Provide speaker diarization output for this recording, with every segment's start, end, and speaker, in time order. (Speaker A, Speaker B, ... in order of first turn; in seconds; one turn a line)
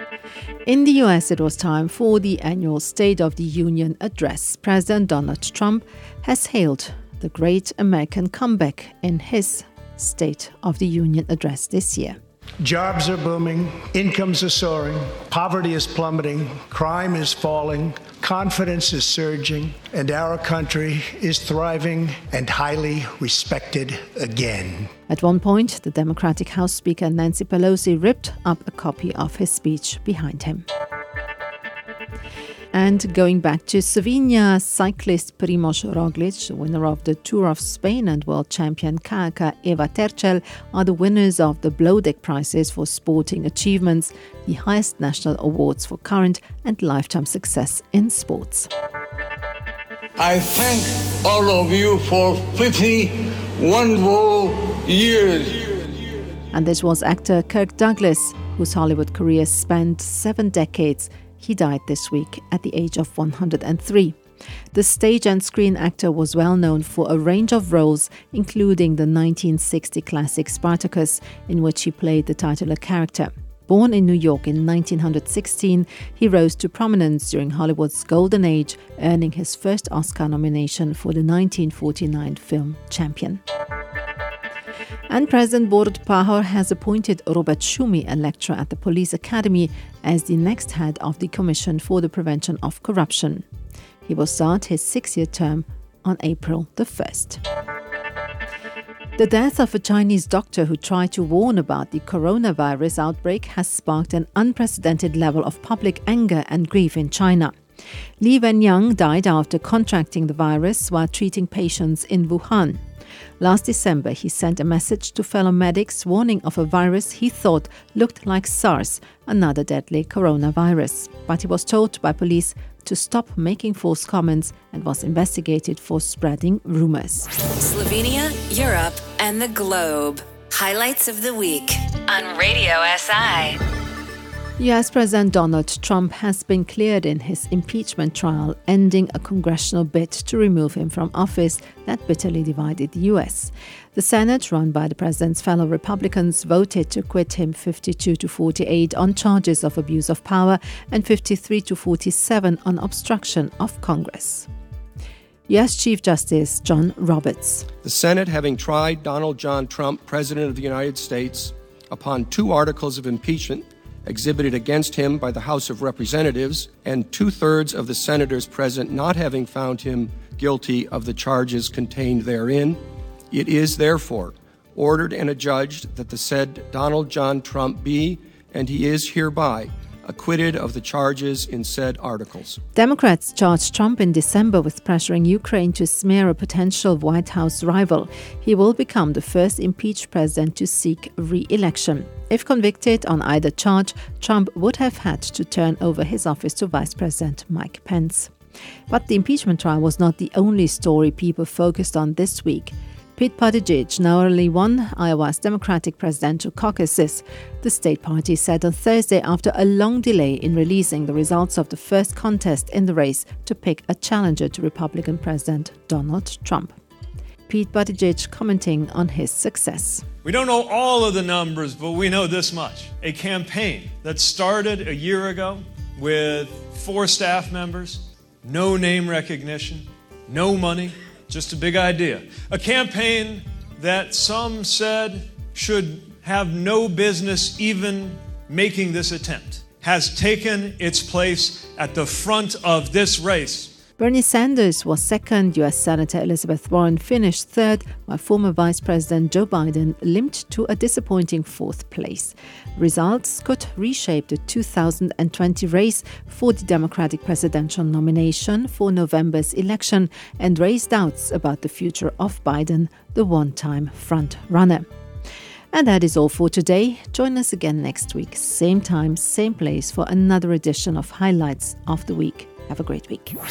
Speaker A: 0.7-12.2
Speaker B: 12.6-24.9
Speaker A: 25.1-30.7
Speaker A: 32.7-48.7
Speaker C: 50.2-55.9
Speaker A: 56.5-64.2
Speaker A: 64.7-83.4
Speaker A: 85.1-93.4
Speaker A: 94.1-97.4
Speaker A: 99.2-107.5
Speaker A: 108.2-112.8
Speaker A: 113.4-127.3
Speaker D: 127.6-133.6
Speaker A: 134.6-154.5
Speaker A: 155.5-157.7
Speaker E: 157.8-182.6
Speaker A: 182.8-198.3
Speaker A: 198.9-216.8
Speaker A: 217.5-220.1
Speaker F: 220.2-243.7
Speaker A: 244.0-264.9
Speaker A: 265.7-273.4